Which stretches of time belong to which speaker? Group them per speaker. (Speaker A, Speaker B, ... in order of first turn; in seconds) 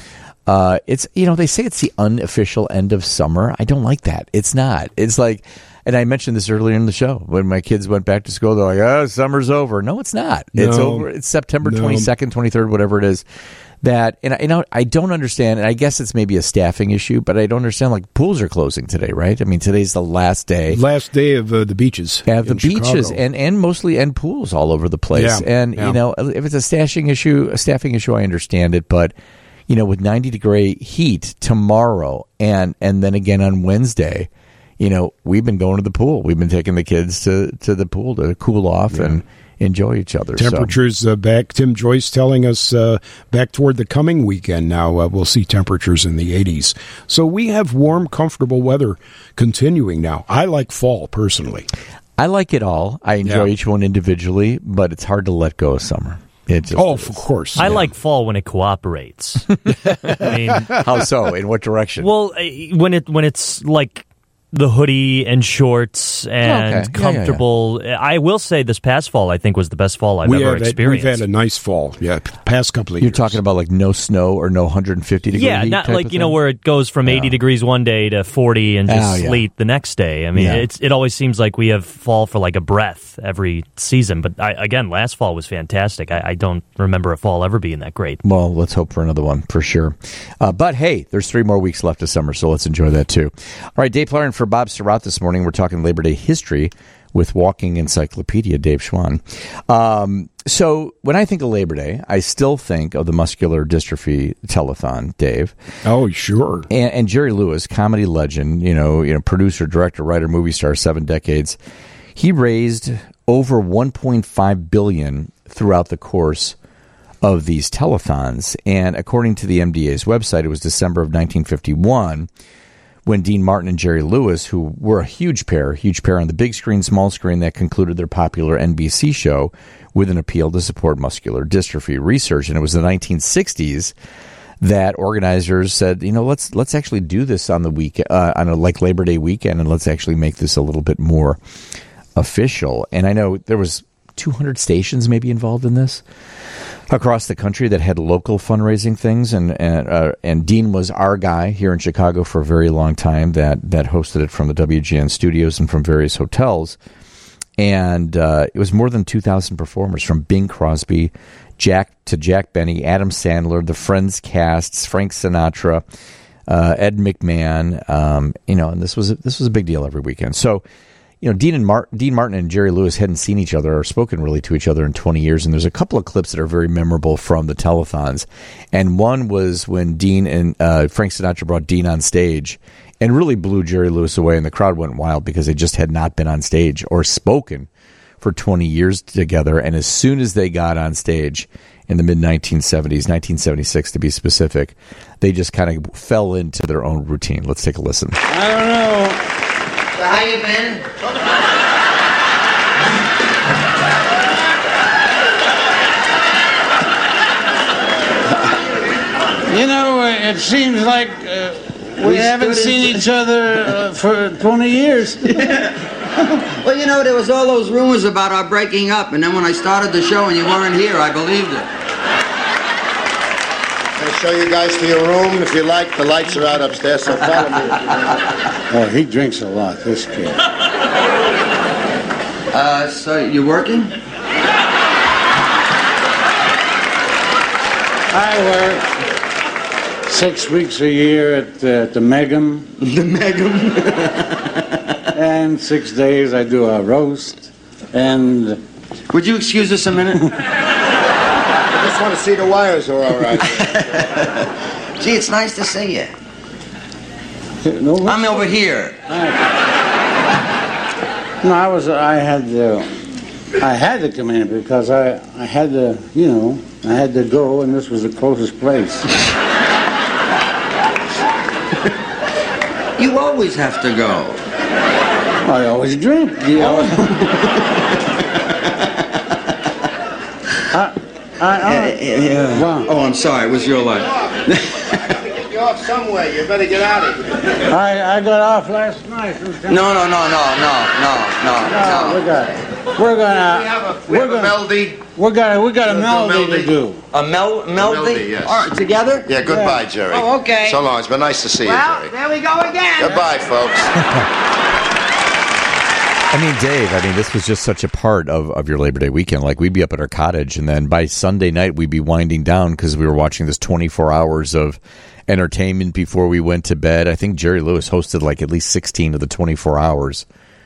Speaker A: 0.5-13.2, 13.8-20.8, 22.3-29.1, 29.7-40.7, 52.2-57.9, 59.7-60.0, 60.6-62.1, 66.4-67.4, 73.0-76.4, 77.0-77.4, 78.9-79.5, 80.3-80.7, 88.2-105.5, 106.7-111.6, 112.2-116.6, 117.2-122.3, 123.1-133.9, 134.6-141.4, 142.2-146.0, 146.9-156.8, 157.6-165.8, 166.5-170.6, 171.2-187.7, 188.2-198.2, 306.3-320.2
Speaker B: 10.6-11.1, 11.6-12.1, 20.7-23.2, 25.1-26.0, 38.9-39.2, 40.4-51.7, 53.2-53.5, 56.7-57.7, 70.2-73.4, 105.8-106.7
Speaker C: 57.6-60.8, 62.0-71.3, 75.3-88.2
Speaker D: 198.3-199.2, 209.5-215.4, 228.7-230.4, 238.1-238.9, 240.1-242.7, 245.1-248.6, 257.6-259.4, 261.4-262.9, 263.6-269.1, 275.4-277.5, 280.7-282.9, 287.7-290.0, 291.6-297.1, 299.4-299.9, 303.0-303.3
Speaker E: 200.0-200.8, 212.0-213.0, 215.3-215.7, 216.5-221.7, 232.5-233.9, 242.8-244.7, 249.1-250.2, 253.3-254.4, 255.0-256.1, 258.0-259.0, 273.0-274.4, 281.7-285.1, 289.7-292.4, 297.1-299.4, 300.1-300.8, 301.6-303.1
Speaker F: 224.0-228.2, 251.8-254.1, 284.1-284.4, 285.1-287.4, 293.4-295.0, 295.8-296.8, 297.7-303.9